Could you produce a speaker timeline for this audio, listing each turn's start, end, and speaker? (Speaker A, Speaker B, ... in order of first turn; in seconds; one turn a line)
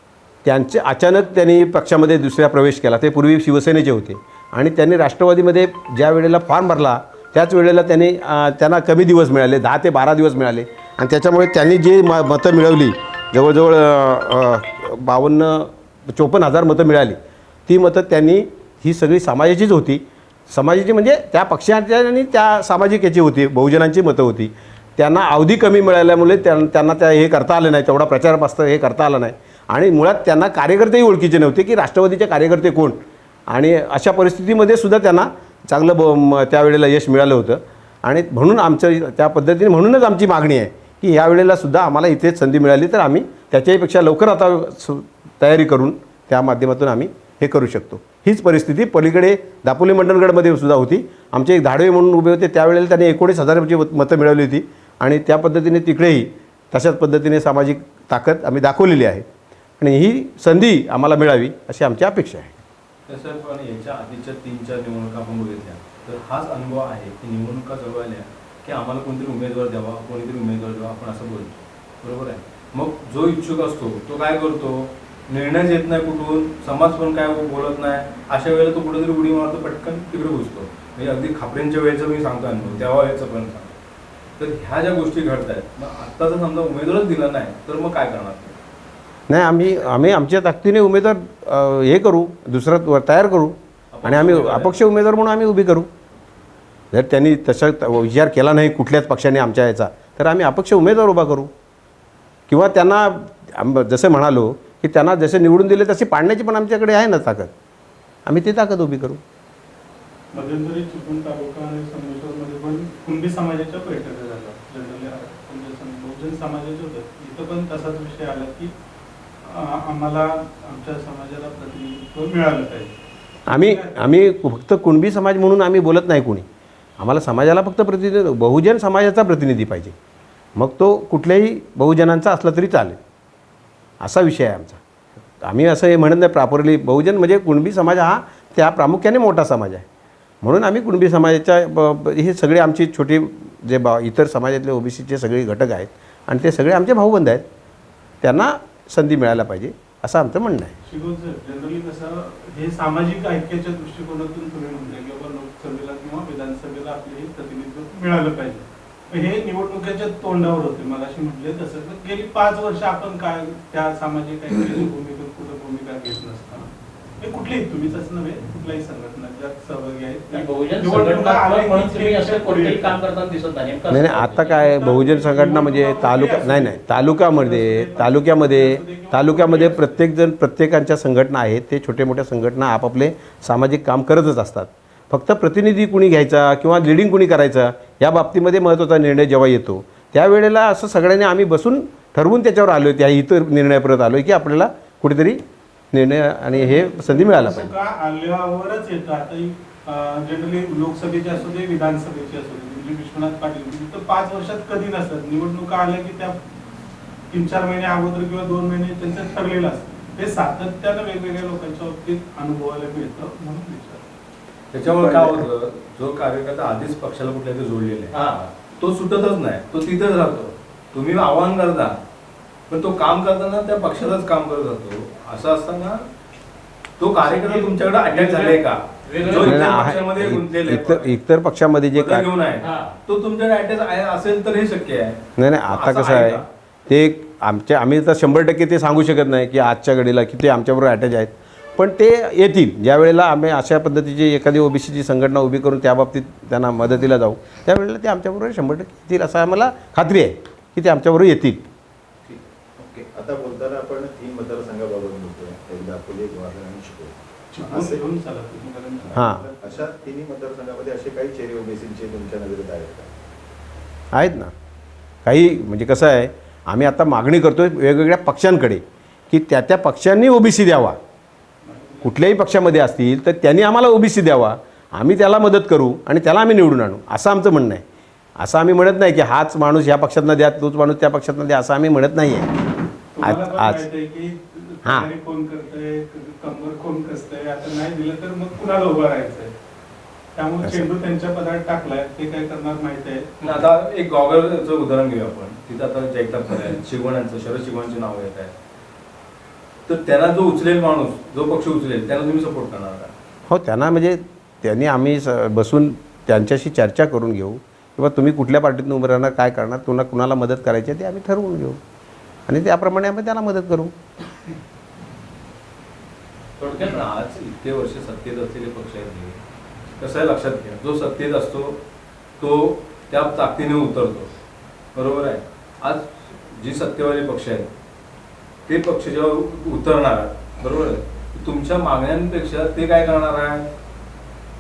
Speaker A: 0.4-59.2
Speaker A: 59.8-62.6
Speaker B: 63.1-83.7
Speaker B: 84.4-88.6
Speaker A: 89.3-95.9
Speaker B: 93.9-94.8
Speaker A: 96.9-101.5
Speaker A: 102.5-107.5
Speaker A: 108.2-109.2
Speaker C: 110.3-118.7
Speaker C: 119.4-122.9
Speaker A: 123.5-126.5
Speaker C: 123.5-124.0
Speaker A: 127.0-129.9
Speaker A: 130.6-133.0
Speaker A: 134.0-134.8
Speaker A: 135.4-139.8
Speaker A: 140.4-147.4
Speaker A: 148.2-150.7
Speaker C: 150.8-166.7
Speaker C: 167.2-172.9
Speaker D: 170.3-174.8
Speaker A: 173.9-195.4
Speaker C: 174.8-179.9
Speaker A: 195.9-197.7
Speaker C: 196.5-206.4
Speaker C: 207.3-214.1
Speaker B: 214.7-222.0
Speaker D: 218.1-218.5
Speaker B: 222.7-226.1
Speaker B: 227.0-231.1
Speaker D: 227.3-230.1
Speaker A: 229.4-232.3
Speaker B: 231.9-236.4
Speaker D: 232.6-232.9
Speaker A: 235.4-251.6
Speaker E: 253.2-258.0
Speaker C: 257.5-260.2
Speaker A: 259.1-259.4
Speaker E: 259.6-262.6
Speaker C: 261.1-263.1
Speaker A: 264.1-264.5
Speaker A: 265.2-271.0
Speaker C: 271.6-272.1
Speaker A: 272.0-277.8
Speaker A: 278.4-282.5
Speaker C: 283.1-289.5
Speaker A: 283.2-283.8
Speaker A: 284.8-285.1
Speaker C: 290.3-293.3
Speaker A: 290.6-290.9
Speaker B: 293.4-298.5
Speaker B: 299.9-303.1
Speaker A: 303.5-311.8
Speaker A: 312.5-313.9
Speaker B: 316.6-319.4
Speaker B: 320.0-321.8
Speaker B: 322.4-324.3
Speaker B: 324.9-327.7
Speaker B: 328.7-333.7